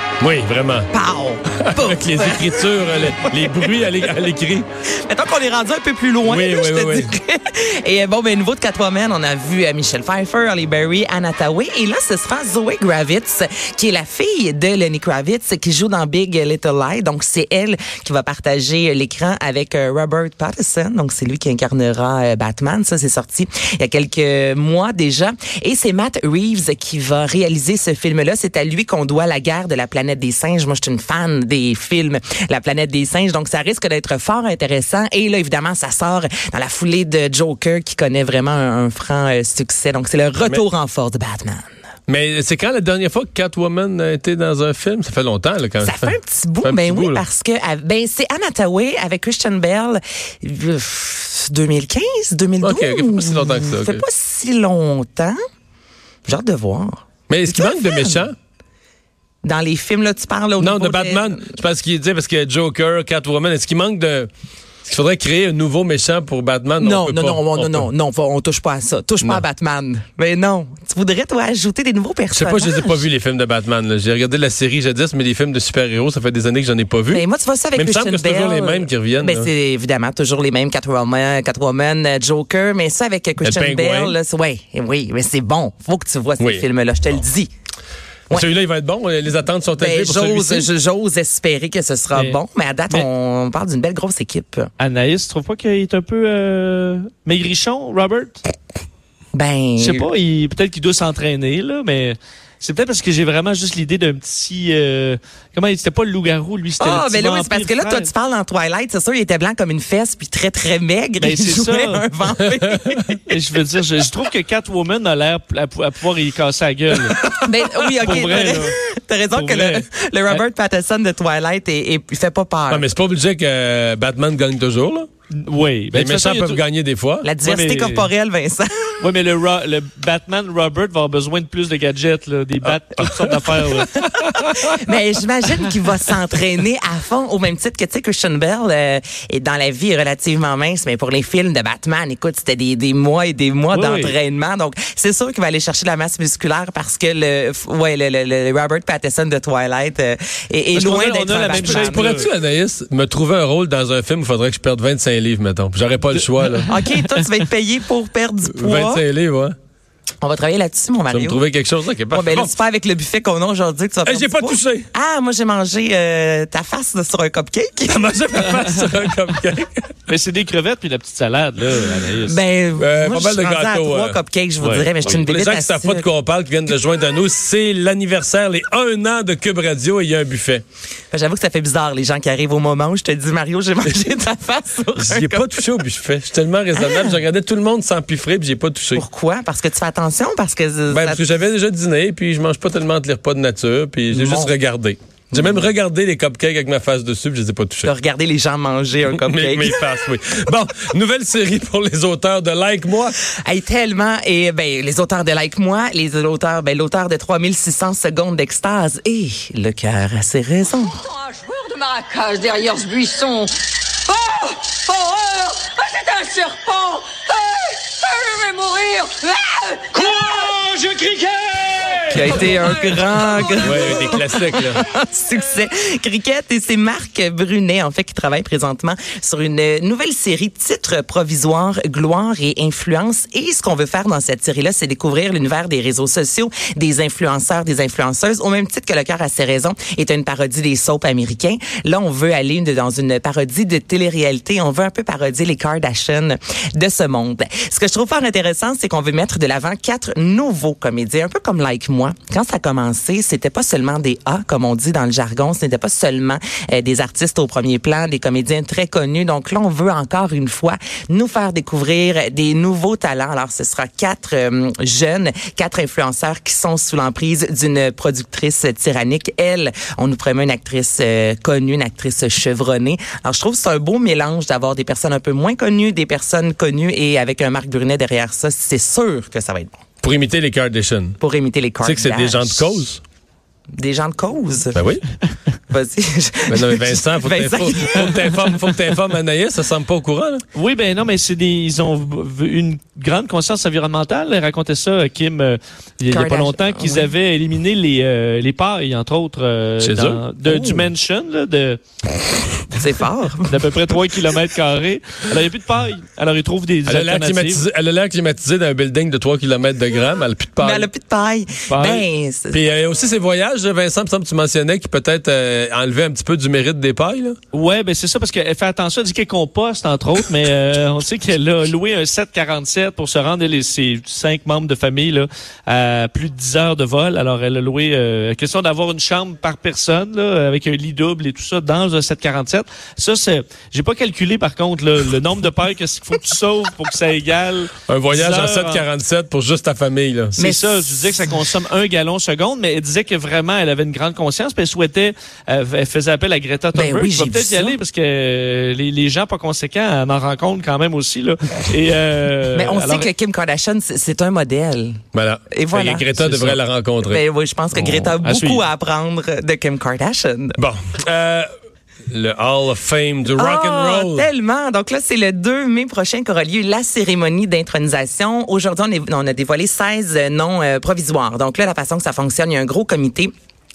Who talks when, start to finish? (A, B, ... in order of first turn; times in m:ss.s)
0:00.2-0:00.9 A
0:00.9-0:03.7 B
0:01.5-0:04.6 A
0:04.9-0:41.7 B
0:06.2-0:07.1 A
0:42.1-0:47.2 A
0:45.8-0:55.4 B
0:52.6-0:54.0 A
0:56.2-0:58.3 B
0:57.3-0:58.3 A
0:59.4-1:01.6 B
1:00.6-1:04.3 A
1:04.8-1:07.9 A
1:06.8-1:13.0 B
1:12.3-1:17.2 A
1:17.1-1:27.5 B
1:17.7-1:19.5 A
1:23.4-1:24.2 A
1:26.4-1:26.6 A
1:28.3-1:30.7 A
1:29.8-1:34.7 B
1:32.1-1:32.4 C
1:34.8-1:38.4 C
1:39.3-1:40.1 B
1:39.8-1:48.1 C
1:46.8-1:53.3 B
1:51.2-1:52.0 C
1:53.3-1:57.4 C
1:57.4-2:02.8 B
1:57.9-1:58.8 C
1:59.3-2:00.4 C
2:02.7-2:05.1 A
2:05.4-2:06.6 C
2:05.9-2:07.3 A
2:07.2-2:09.0 B
2:07.4-2:08.1 C
2:09.0-2:14.0 C
2:12.6-2:14.8 A
2:13.9-2:32.2 B
2:23.7-2:24.2 C
2:30.7-2:32.3 C
2:31.5-2:36.7 A
2:36.4-2:37.3 C
2:36.6-2:39.0 B
2:38.5-2:39.6 A
2:40.2-2:41.4 B
2:41.1-2:42.5 A
2:42.1-2:48.6 B
2:44.0-2:44.9 A
2:47.8-2:50.0 A
2:50.1-2:52.4 C
2:52.2-2:56.1 B
2:52.8-2:54.2 A
2:54.6-2:54.9 C
2:55.0-3:00.6 A
3:01.1-3:05.6 B
3:05.0-3:09.0 A
3:06.7-3:07.2 B
3:08.9-3:11.2 B
3:10.9-3:17.9 A
3:14.1-3:14.5 B
3:15.3-3:15.6 B
3:17.8-3:19.8 B
3:19.3-3:23.2 A
3:23.4-3:31.0 B
3:31.1-3:33.4 D
3:32.5-3:32.8 B
3:34.2-3:34.5 D
3:35.0-3:39.6 D
3:40.5-3:41.6 D
3:42.1-4:39.8 B
3:43.6-3:44.8 A
4:40.0-4:41.2 A
4:41.2-4:42.8 B
4:41.8-4:43.0 A
4:43.8-4:44.8 B
4:44.7-4:45.0 A
4:45.7-4:48.3 B
4:46.5-4:50.4 A
4:50.5-5:01.8 C
4:56.1-4:57.1 B
4:59.8-5:00.2 A
5:00.4-5:00.9 B
5:02.7-5:03.6 B
5:03.5-5:07.6 C
5:06.8-5:10.9 A
5:10.6-5:12.6 B
5:11.7-5:12.0 C
5:12.5-5:17.4 A
5:17.5-5:38.8 C
5:37.9-5:40.4 A
5:40.4-5:41.3 B
5:40.4-5:53.1 C
5:46.7-5:47.8 B
5:52.5-6:00.6 B
5:55.1-5:57.2 A
5:58.2-5:58.6 C
6:00.6-6:01.5 A
6:02.1-6:04.3 A
6:03.3-6:13.3 B